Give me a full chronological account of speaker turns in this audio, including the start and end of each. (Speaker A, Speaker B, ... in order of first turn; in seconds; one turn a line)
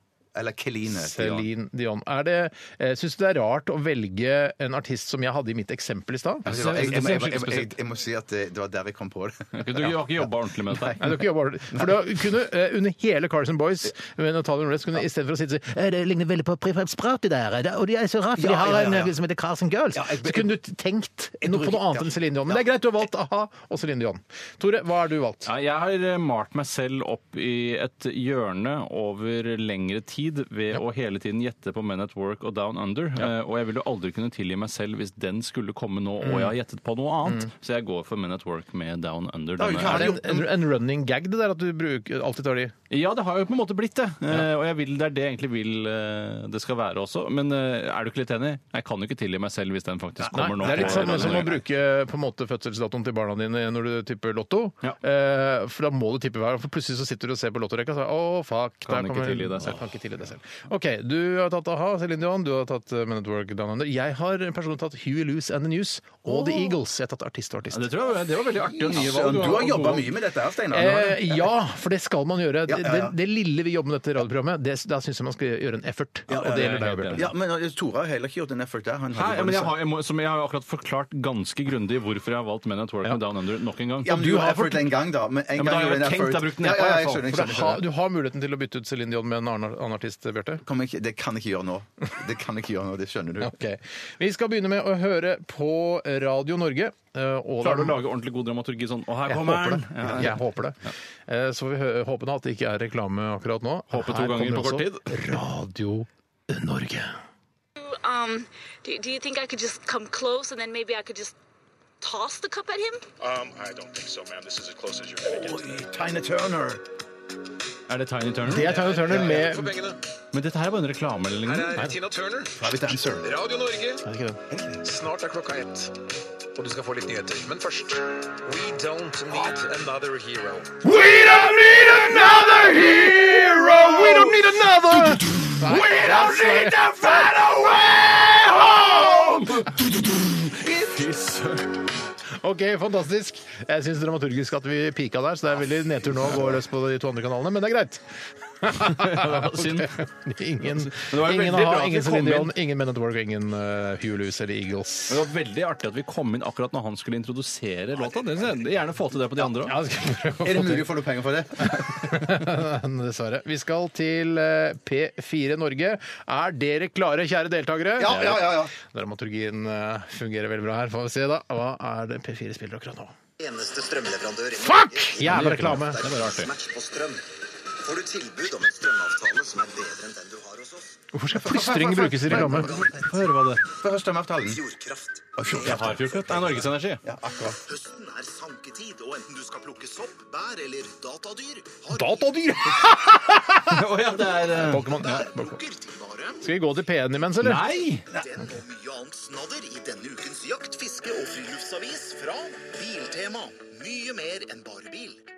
Speaker A: 0.3-1.5
Speaker B: 0.9-7.7
Speaker A: 6.5-11.2
Speaker C: 9.6-11.0
Speaker B: 11.0-25.5
Speaker A: 18.4-19.1
Speaker A: 19.9-20.5
Speaker A: 21.4-22.6
Speaker C: 25.5-40.2
Speaker B: 36.2-36.5
Speaker A: 39.6-40.5
Speaker B: 39.9-42.7
Speaker C: 42.9-51.6
Speaker B: 50.3-67.9
Speaker A: 50.6-51.5
Speaker C: 58.9-59.8
Speaker C: 66.3-66.7
Speaker C: 67.7-70.1
Speaker A: 68.7-71.5
Speaker B: 70.7-77.3
Speaker A: 72.7-73.2
Speaker A: 76.3-79.8
Speaker C: 76.5-77.3
Speaker C: 79.1-84.3
Speaker A: 84.0-87.8
Speaker B: 84.1-84.8
Speaker C: 85.6-87.2
Speaker B: 87.2-90.6
Speaker A: 90.6-93.5
Speaker B: 93.4-98.0
Speaker C: 97.6-100.4
Speaker B: 99.3-107.2
Speaker C: 103.9-105.1
Speaker D: 107.8-111.4
Speaker D: 112.0-113.0
Speaker E: 113.2-115.8
Speaker A: 115.2-116.8
Speaker C: 117.9-118.7
Speaker B: 118.5-119.7
Speaker E: 118.5-120.0
Speaker A: 119.0-119.5
Speaker C: 120.3-121.8
Speaker E: 121.5-122.6
Speaker A: 122.6-123.3
Speaker E: 123.2-124.0
Speaker B: 124.0-124.4
Speaker A: 124.5-124.9
Speaker E: 124.8-125.9
Speaker E: 126.6-130.8
Speaker B: 131.0-137.4
Speaker A: 132.2-132.5
Speaker A: 133.2-134.3
Speaker A: 135.7-136.3
Speaker A: 137.3-139.5
Speaker C: 137.9-141.8
Speaker A: 140.7-141.0
Speaker B: 142.4-148.0
Speaker A: 146.2-146.5
Speaker B: 148.6-155.2
Speaker C: 148.8-149.9
Speaker C: 150.9-152.5
Speaker C: 155.1-159.8
Speaker B: 159.6-160.9
Speaker A: 160.4-162.3
Speaker B: 161.7-173.1
Speaker A: 168.0-168.7
Speaker C: 168.1-168.4
Speaker F: 173.4-177.2
Speaker B: 174.6-176.0
Speaker C: 175.2-176.5
Speaker F: 177.8-181.1
Speaker B: 181.1-182.8
Speaker A: 181.3-183.0
Speaker C: 182.3-183.6
Speaker F: 182.7-183.0
Speaker A: 183.7-184.6
Speaker F: 184.5-185.8
Speaker A: 185.4-187.6
Speaker C: 185.6-187.0
Speaker F: 187.6-192.3
Speaker B: 191.9-193.8
Speaker C: 193.6-195.2
Speaker B: 194.5-195.6
Speaker F: 195.0-196.5
Speaker B: 196.4-197.7
Speaker C: 197.4-198.1
Speaker F: 198.1-205.2